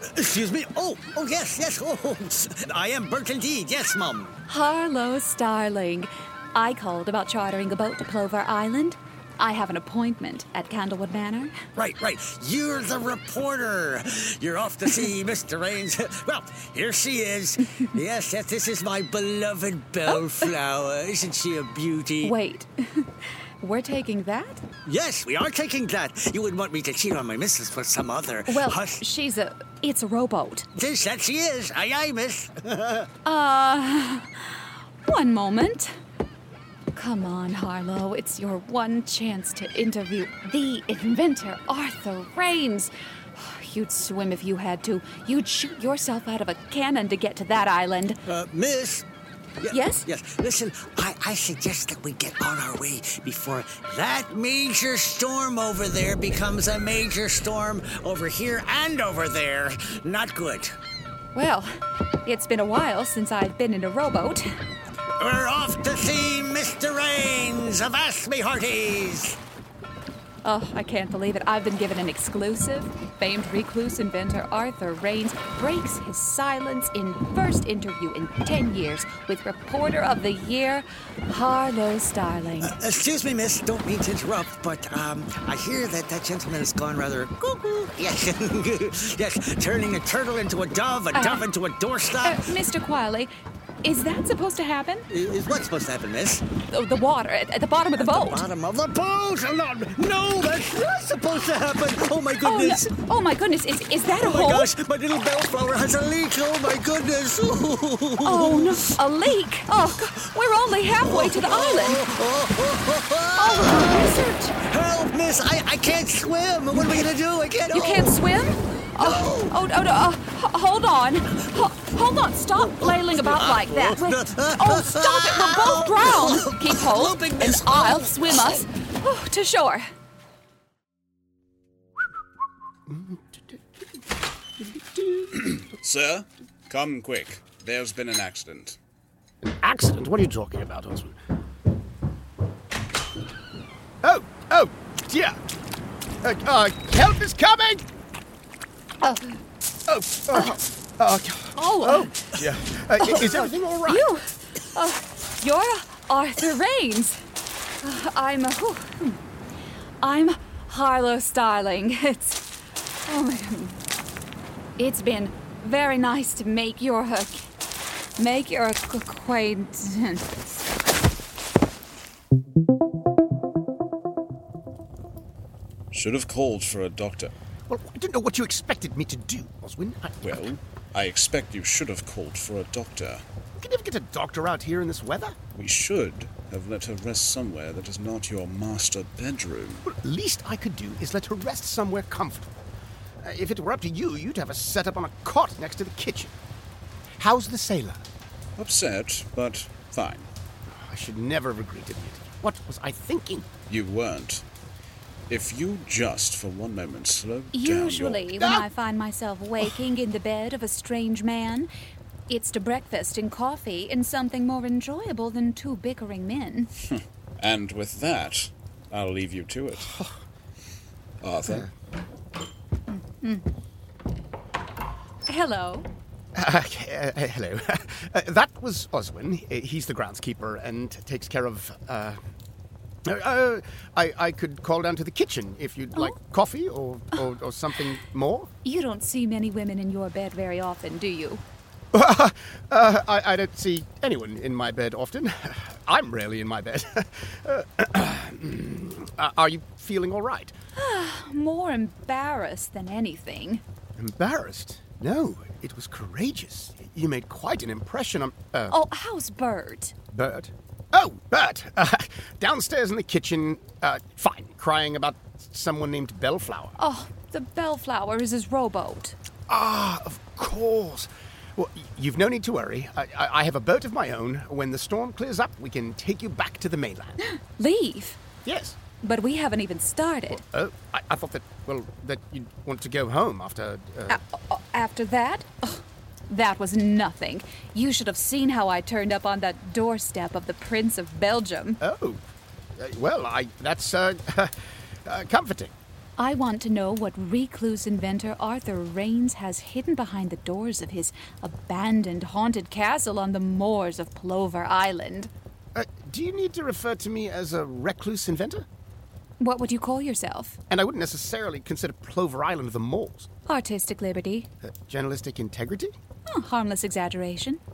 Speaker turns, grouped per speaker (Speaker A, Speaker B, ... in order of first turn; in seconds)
Speaker A: 0.1-4.4, 11.8-22.4, 24.9-29.0, 30.8-33.1, 48.3-49.1, 49.6-60.8, 65.2-69.4, 82.7-92.5, 95.1-96.4, 98.0-102.9, 104.0-108.9, 111.0-118.2, 119.0-119.6, 122.8-128.6
Speaker B: 4.5-11.6, 22.2-23.1, 23.6-24.6, 28.5-30.7, 33.2-36.0, 37.0-48.2, 49.7-50.1, 61.3-61.7, 62.2-64.5, 70.4-82.8, 91.1-91.4, 92.2-93.3, 93.8-95.1, 96.7-98.5, 102.4-104.7, 108.2-112.1, 113.4-114.6, 117.7-129.8, 149.0-149.3, 150.3-150.6, 151.6-152.2, 153.0-157.2, 157.8-159.2, 160.0-162.4, 163.1-163.8, 164.8-167.4, 168.2-170.5, 207.5-211.7, 212.3-216.7, 222.9-223.4, 225.3-225.9, 238.6-241.4, 250.8-253.6, 258.7-259.9, 266.8-269.2, 277.2-278.2, 279.0-280.4, 284.1-291.8, 296.2-305.3, 309.4-310.6, 313.5-314.5, 316.3-317.6
Speaker C: 132.9-133.6, 134.6-135.6, 139.4-141.2, 144.0-145.4, 146.2-147.8, 149.9-154.1, 177.7-180.4, 183.6-185.4, 189.9-192.6, 193.2-196.3, 197.2-198.0, 200.7-203.5, 208.4-208.7, 221.4-221.7, 226.4-232.2, 233.1-238.5, 241.9-250.5, 254.0-258.8, 260.1-266.8, 269.5-277.2, 278.4-278.8, 280.3-284.2, 291.8-292.2, 292.8-294.5, 295.1-295.7, 305.8-308.7, 310.7-313.3, 314.6-315.9
Speaker D: 135.4-138.8, 175.9-177.3, 180.2-183.2, 185.5-189.9, 198.6-200.3, 203.7-204.4, 205.3-208.5, 216.9-220.0, 221.2-221.7